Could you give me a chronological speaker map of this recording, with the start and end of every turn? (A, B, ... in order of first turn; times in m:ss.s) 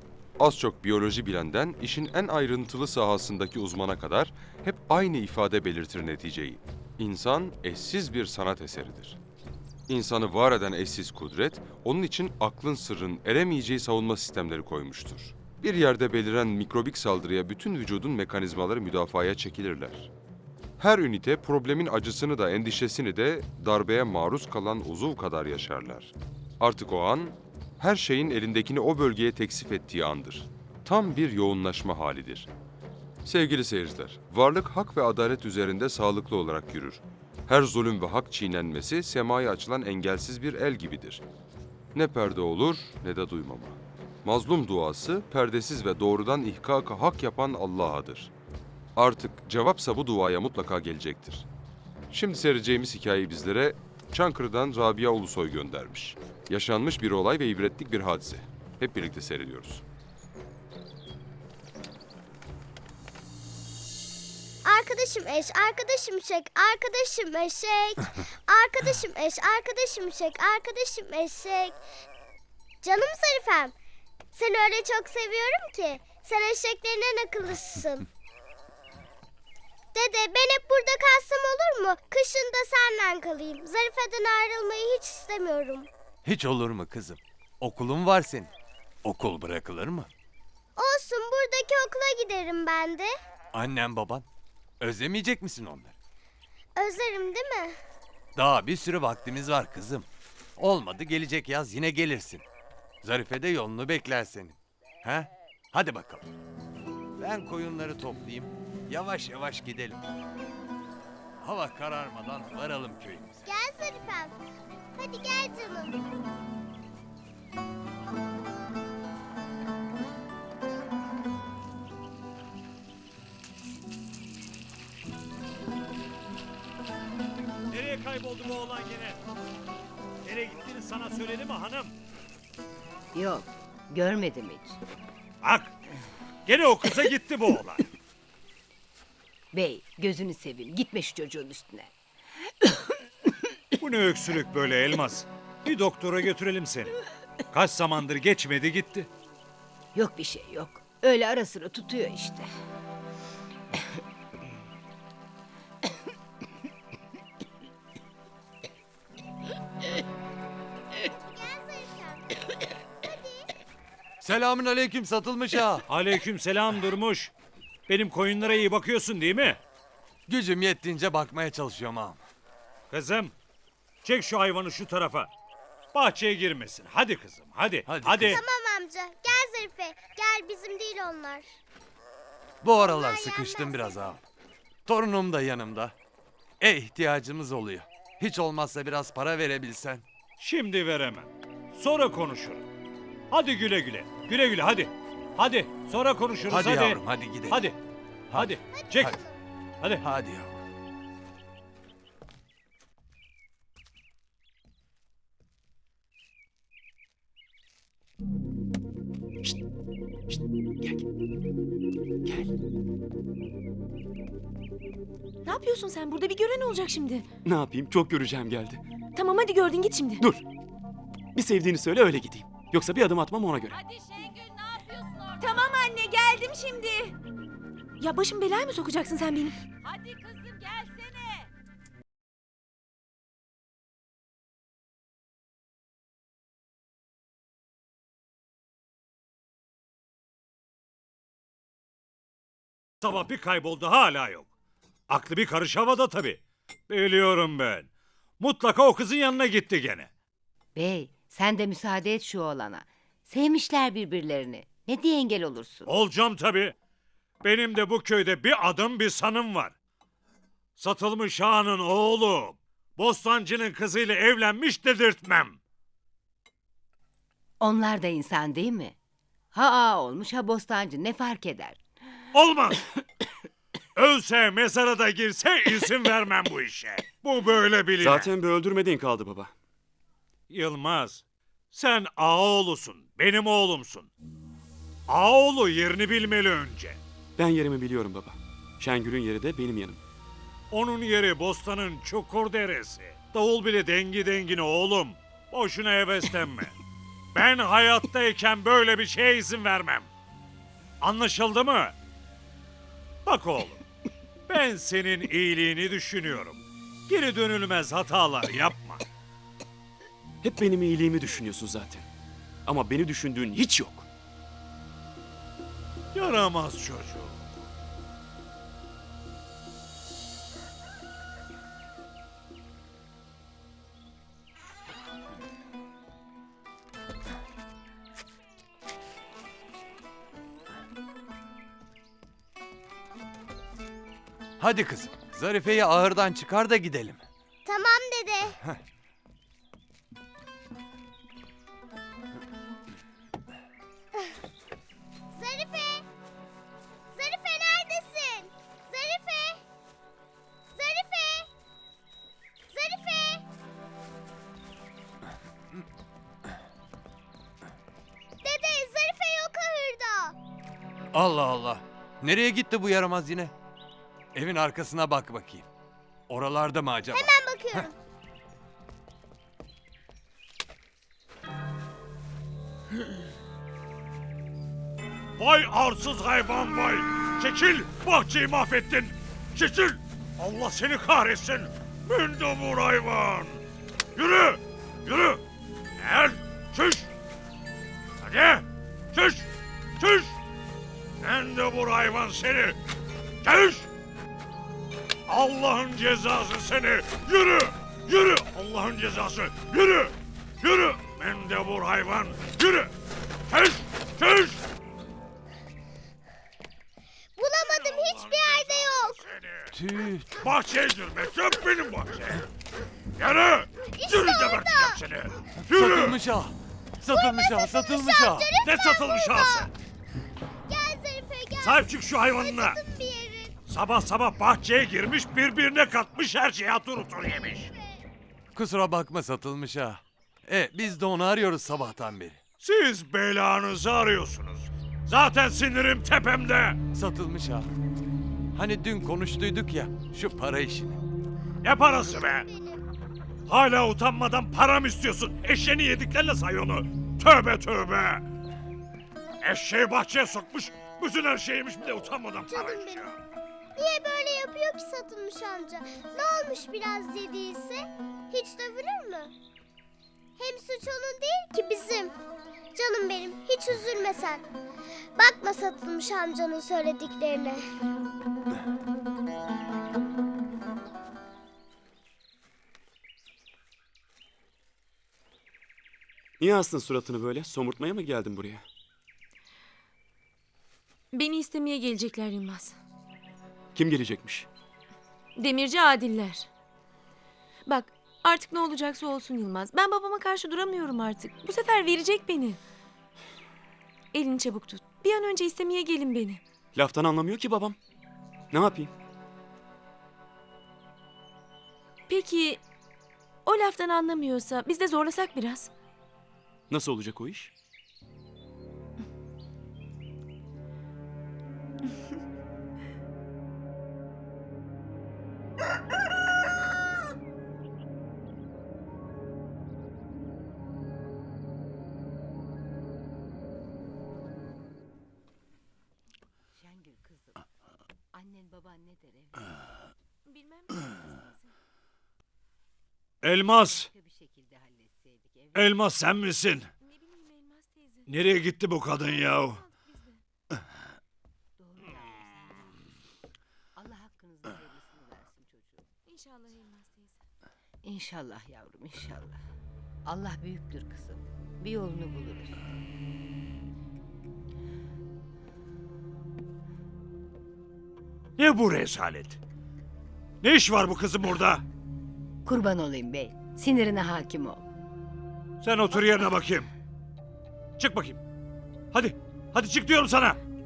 0:00.4-0:09.2 A
0:09.9-0:20.1 A
0:20.8-0:32.5 A
0:33.2-0:41.2 A
0:41.9-0:48.3 A
0:49.0-0:51.5 A
0:52.1-0:59.8 A
1:04.7-1:11.8 B
1:12.8-1:13.7 B
1:14.3-1:18.1 B
1:19.9-1:25.9 B
1:26.2-1:28.5 C
1:29.0-1:30.1 C
1:30.8-1:33.1 B
1:33.5-1:34.3 C
1:34.8-1:36.0 C
1:36.8-1:37.8 B
1:38.4-1:42.4 C
1:43.0-1:46.3 C
1:47.2-1:50.0 C
1:51.4-1:53.4 C
1:53.4-1:54.4 B
1:55.0-1:56.0 B
2:07.7-2:09.2 D
2:10.2-2:12.0 D
2:13.1-2:14.8 E
2:15.4-2:15.7 D
2:16.5-2:17.9 D
2:19.5-2:21.9 E
2:23.8-2:26.9 D
2:27.5-2:29.1 D
2:30.0-2:32.5 E
2:41.1-2:42.4 B
2:43.0-2:43.5 B
2:44.2-2:45.9 C
2:45.9-2:47.3 D
2:47.9-2:49.6 D
2:50.3-2:52.2 C
2:52.9-2:53.3 D
2:54.0-2:55.3 D
2:55.9-2:58.4 D
2:57.9-2:58.4 C
2:58.3-3:01.6 B
3:02.6-3:04.2 C
3:02.8-3:04.0 B
3:04.9-3:06.0 C
3:06.6-3:10.0 C
3:10.4-3:12.7 D
3:13.3-3:17.8 D
3:16.5-3:17.6 C
3:18.3-3:19.2 D
3:18.3-3:19.2 C
3:18.7-3:19.4 B
3:20.0-3:20.6 C
3:30.3-3:31.0 F
3:32.3-3:32.5 F
3:35.4-3:37.3 G
3:37.4-3:38.8 F
3:39.2-3:40.2 G
3:40.2-3:40.4 F
3:41.4-3:43.8 F
3:45.4-3:47.2 G
3:48.0-3:49.6 G
4:03.0-4:04.5 D
4:05.1-4:07.9 D
4:08.4-4:10.1 D
4:10.8-4:15.9 E
4:15.9-4:16.7 D
4:17.4-4:19.8 D
4:20.8-4:25.6 D
4:27.6-4:29.0 E
4:29.5-4:31.8 E
4:32.3-4:32.8 D
4:34.0-4:38.3 D
4:38.0-4:39.5 F
4:40.5-4:44.1 D
4:45.1-4:47.0 D
4:47.4-4:50.0 F
4:50.7-4:56.7 D
4:57.3-5:00.1 D
5:01.0-5:02.0 D
5:03.2-5:03.8 D
5:04.5-5:09.0 D
5:10.4-5:12.1 F
5:12.7-5:14.1 F
5:16.1-5:17.6 D
5:34.6-5:37.2 C
5:37.7-5:38.6 B
5:45.4-5:46.1 B
5:47.1-5:49.6 B
5:50.7-5:51.5 B
5:52.7-5:53.4 B
5:58.4-6:00.4 B
6:01.1-6:03.5 C
6:04.3-6:05.7 C
6:06.3-6:07.9 C
6:07.1-6:08.0 B
6:15.4-6:23.6 D
6:24.2-6:25.4 D
6:26.0-6:27.1 D
6:28.2-6:30.4 D
6:31.2-6:32.8 D
6:33.4-6:33.9 D
6:35.3-6:42.9 D
6:43.5-6:44.6 D
6:47.4-6:49.2 B
6:47.6-6:49.8 D
6:49.7-6:50.4 C
6:50.4-6:52.4 D
6:53.2-6:56.2 D
6:53.9-6:55.0 B
6:55.7-6:58.5 C
6:57.1-6:59.7 B
6:58.6-6:59.7 D
7:00.7-7:03.6 B
7:01.6-7:02.8 D
7:03.7-7:07.7 D
7:08.6-7:12.4 C
7:12.6-7:16.8 D
7:16.9-7:17.7 C
7:18.5-7:21.0 C
7:21.6-7:22.5 D
7:22.0-7:22.8 B
7:23.5-7:28.3 D
7:29.4-7:33.2 D
7:32.4-7:33.1 B
7:33.8-7:39.3 B
7:40.4-7:42.1 B
7:42.8-7:44.4 B
7:45.2-7:47.6 B
7:56.4-7:58.7 F
8:01.1-8:02.8 G
8:03.8-8:04.5 F
8:05.4-8:06.5 G
8:07.7-8:12.6 G
8:14.1-8:16.4 G
8:16.7-8:17.8 F
8:18.5-8:18.9 F
8:22.1-8:22.6 G
8:23.4-8:25.7 G
8:26.7-8:27.5 F
8:46.5-8:47.5 E
8:48.1-8:49.4 E
8:50.3-8:51.4 G
8:53.2-8:53.9 D
8:53.4-8:55.9 E
8:55.6-8:56.7 D
8:56.8-8:58.1 G
8:58.1-8:59.6 D
8:59.1-9:00.2 G
9:01.6-9:02.8 E
9:03.8-9:05.9 E
9:06.1-9:07.2 G
9:07.8-9:09.4 E
9:10.0-9:12.6 E
9:18.4-9:19.4 D
9:20.4-9:21.6 D
9:22.4-9:24.6 E
9:25.6-9:26.7 D
9:27.8-9:28.2 D
9:28.9-9:30.4 D